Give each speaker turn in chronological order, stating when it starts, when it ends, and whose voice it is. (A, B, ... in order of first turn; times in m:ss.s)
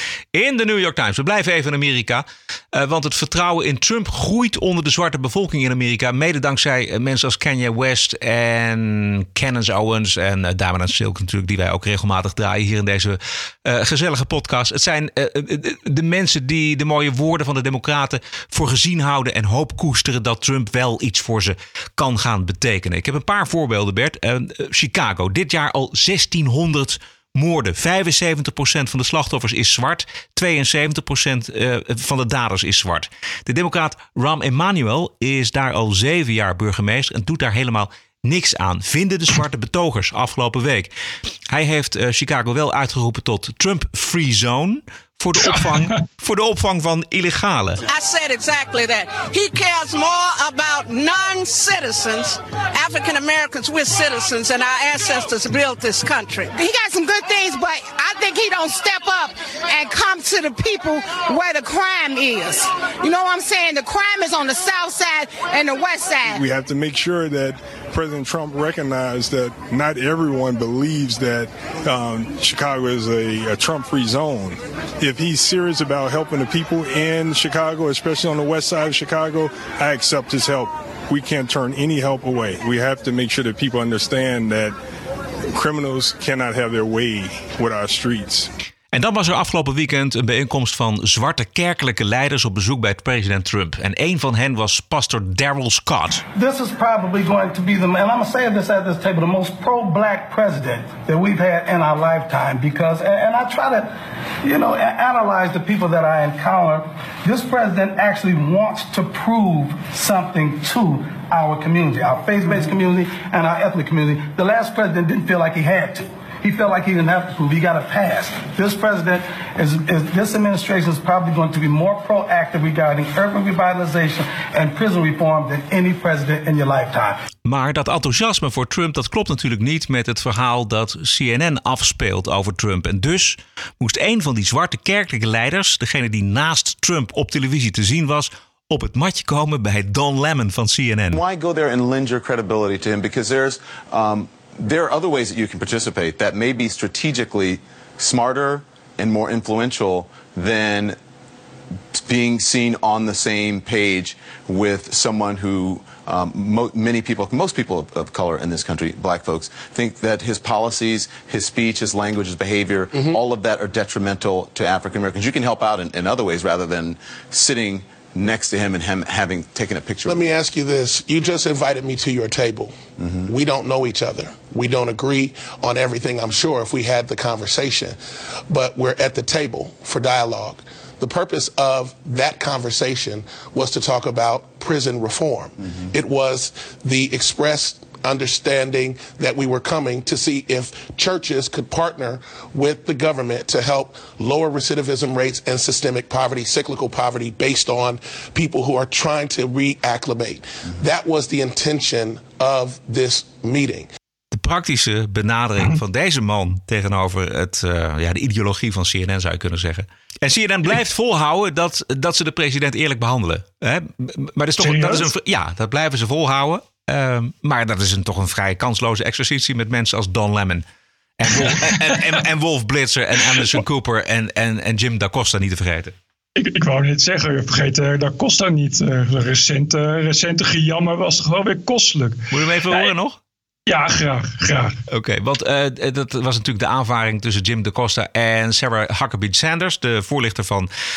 0:00.3-0:40.9 A
0:41.5-0:47.8 A
0:45.4-0:46.0 B
0:47.9-1:06.4 C
1:06.3-1:24.8 D
1:25.5-1:28.5 D
1:28.9-1:36.2 A
1:36.4-2:07.2 E
2:07.4-2:21.2 A
2:21.1-2:31.0 F
2:31.9-2:50.2 F
2:42.9-2:43.2 G
2:50.1-2:58.0 G
2:53.0-2:53.3 F
2:58.5-3:23.9 G
3:24.3-3:40.6 A
3:34.6-3:35.1 B
3:41.2-3:45.9 A
3:41.3-3:42.0 B
3:46.4-3:53.0 B
3:52.3-3:53.2 A
3:53.7-3:54.8 B
3:54.9-4:00.7 A